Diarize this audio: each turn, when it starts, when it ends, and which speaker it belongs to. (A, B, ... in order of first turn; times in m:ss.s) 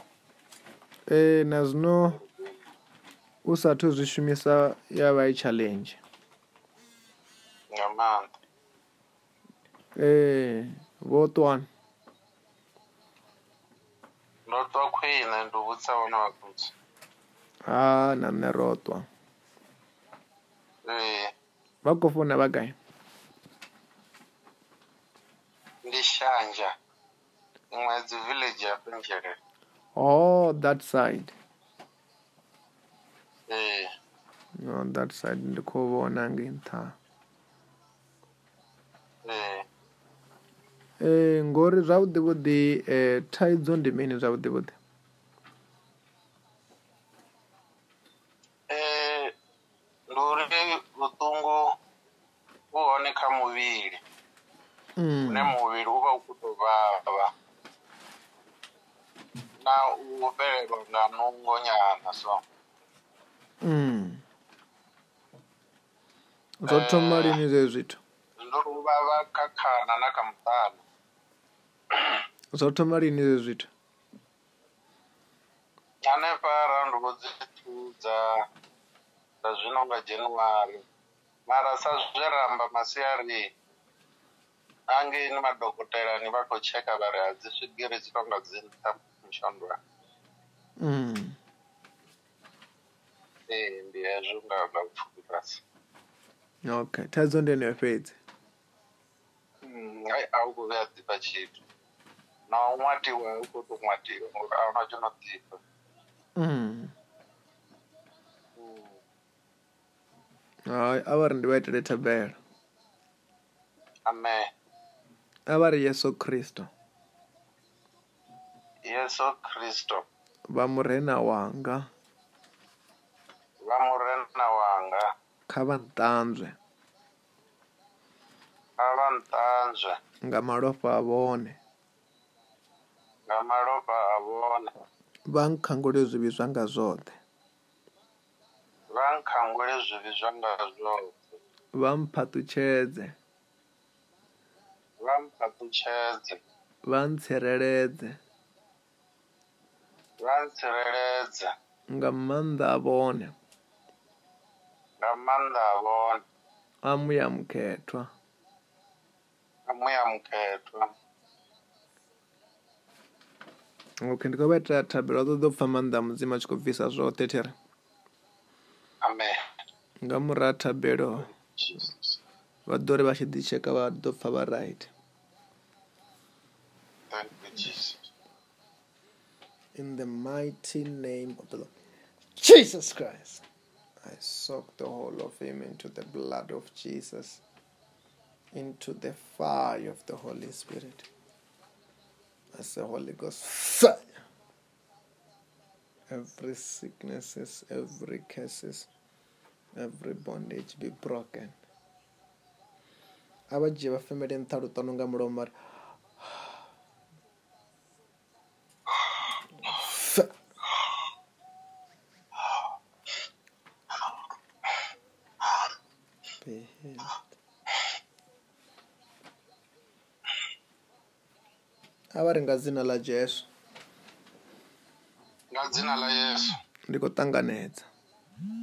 0:01.1-0:02.2 A
0:02.1-0:02.7 B
0:03.4-0:06.0 A
0:07.7-0:08.3 B
0:10.0-0:11.7 A
0:14.5-0:16.7 B
0:17.7-0:19.1 A
0:20.8-0:21.3 B
0:21.8-0:22.8 A
0:25.8-0:26.7 B
0:27.7-0:29.4 B
0:30.0-0:31.4 A
0:33.5-0:33.9 B
0:34.6-0:37.0 A
0:39.2-0:39.7 B
0:41.0-0:44.8 A
0:48.7-0:49.3 B
0:50.1-0:51.6 B
0:52.7-0:54.0 B
0:55.0-0:55.5 A
0:55.3-0:57.3 B
0:59.6-1:02.4 B
1:03.6-1:04.2 A
1:06.6-1:08.0 A
1:06.7-1:07.4 B
1:08.4-1:10.8 B
1:12.5-1:13.7 A
1:16.0-1:18.4 B
1:19.4-1:20.8 B
1:21.5-1:23.4 B
1:24.9-1:29.8 B
1:30.8-1:31.4 A
1:33.5-1:35.6 B
1:36.7-1:38.2 A
1:39.6-1:41.6 B
1:42.5-1:45.6 B
1:46.4-1:46.9 A
1:48.6-1:49.0 B
1:50.7-1:52.4 A
1:54.1-1:54.5 B
1:55.5-1:56.7 A
1:58.9-2:00.0 B
2:00.5-2:01.9 A
2:03.6-2:05.1 B
2:05.5-2:06.6 A
2:08.8-2:10.0 B
2:10.2-2:11.6 A
2:13.3-2:14.7 B
2:15.3-2:17.2 A
2:18.9-2:21.4 B
2:21.7-2:23.2 A
2:25.0-2:26.4 B
2:26.8-2:28.2 A
2:30.2-2:31.5 B
2:31.9-2:33.3 A
2:35.0-2:36.2 B
2:36.8-2:38.1 A
2:39.7-2:40.9 B
2:44.0-2:47.5 A
2:49.0-2:49.4 B
2:50.0-2:51.3 A
2:51.1-2:52.2 B
2:52.7-2:54.9 A
2:57.1-2:58.1 B
2:59.8-3:01.7 A
3:02.4-3:03.4 A
3:04.0-3:07.4 A
3:08.5-3:11.1 A
3:12.5-3:14.1 A
3:16.1-3:18.9 A
3:19.8-3:21.6 A
3:23.5-3:25.5 A
3:26.2-3:26.6 A
3:29.6-3:30.3 A
3:36.4-3:37.2 A
3:42.2-3:43.5 A
3:45.5-3:46.6 B
3:46.9-3:47.9 A